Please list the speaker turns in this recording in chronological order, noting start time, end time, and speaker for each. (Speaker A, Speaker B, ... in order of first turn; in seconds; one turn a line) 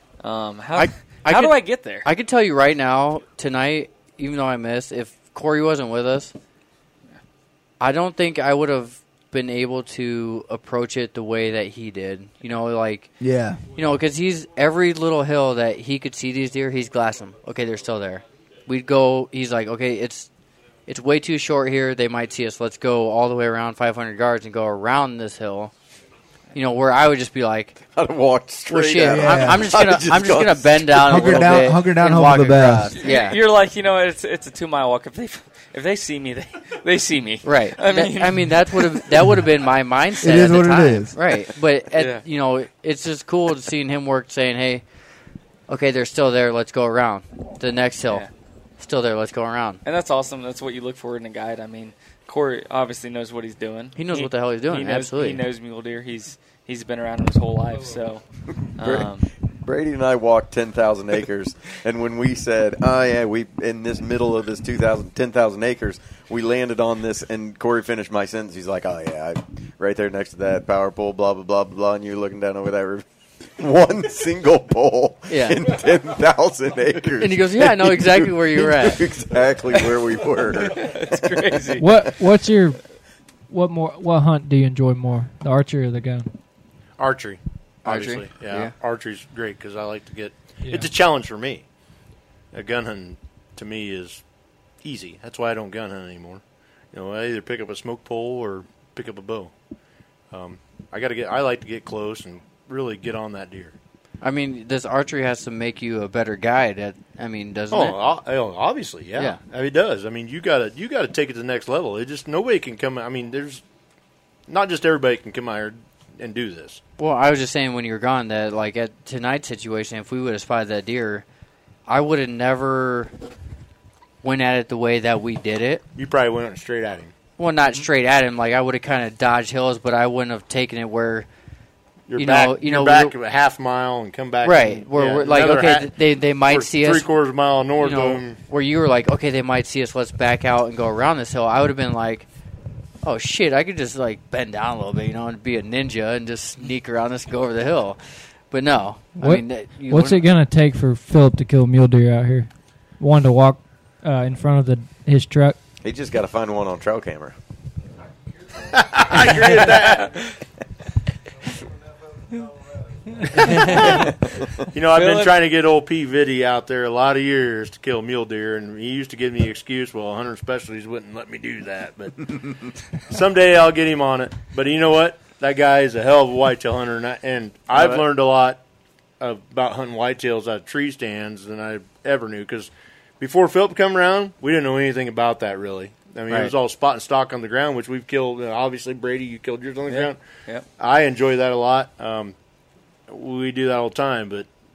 Speaker A: 0.2-2.0
Speaker B: 0.8-6.3
Speaker B: 7.8-13.1
Speaker C: 13.2-13.6
Speaker B: 13.7-20.3
Speaker B: 20.9-25.7
Speaker B: 26.5-27.8
Speaker D: 27.8-31.4
Speaker B: 28.7-33.4
Speaker C: 29.0-29.7
Speaker C: 31.0-33.0
Speaker A: 33.0-39.1
Speaker B: 37.4-44.8
Speaker C: 40.2-41.2
Speaker A: 41.9-42.2
Speaker B: 45.7-48.3
Speaker B: 48.8-49.8
Speaker A: 49.8-58.2
Speaker B: 54.0-55.4
Speaker A: 58.8-59.3
Speaker D: 58.8-73.0
Speaker D: 73.6-80.9
Speaker B: 75.3-75.7
Speaker B: 77.2-79.0
Speaker A: 80.5-81.8
Speaker E: 81.8-82.8
Speaker E: 83.5-86.3
Speaker F: 87.0-91.6
Speaker B: 87.8-88.7
Speaker E: 90.6-90.9
Speaker F: 92.5-94.2
Speaker F: 94.8-96.4
Speaker F: 96.9-99.5
Speaker F: 100.3-103.7
Speaker B: 104.2-108.0
Speaker F: 107.7-113.6
Speaker F: 114.5-116.8
Speaker B: 117.0-121.2
Speaker B: 121.9-123.1
Speaker B: 124.2-125.8
Speaker F: 126.0-127.1
Speaker B: 127.4-131.3
Speaker F: 132.1-138.4
Speaker B: 132.2-133.1
Speaker B: 134.4-137.1
Speaker B: 137.8-142.3
Speaker B: 143.0-148.0
Speaker B: 148.5-150.2
Speaker E: 149.2-155.6
Speaker D: 155.8-157.3
Speaker F: 158.7-160.1
Speaker A: 159.3-160.2
Speaker E: 163.4-163.9
Speaker A: 163.6-164.1
Speaker F: 163.7-164.1
Speaker F: 164.7-172.4
Speaker A: 164.9-165.3
Speaker F: 173.1-178.6
Speaker F: 179.2-190.2
Speaker A: 189.9-190.6
Speaker F: 190.8-192.3
Speaker F: 193.1-194.5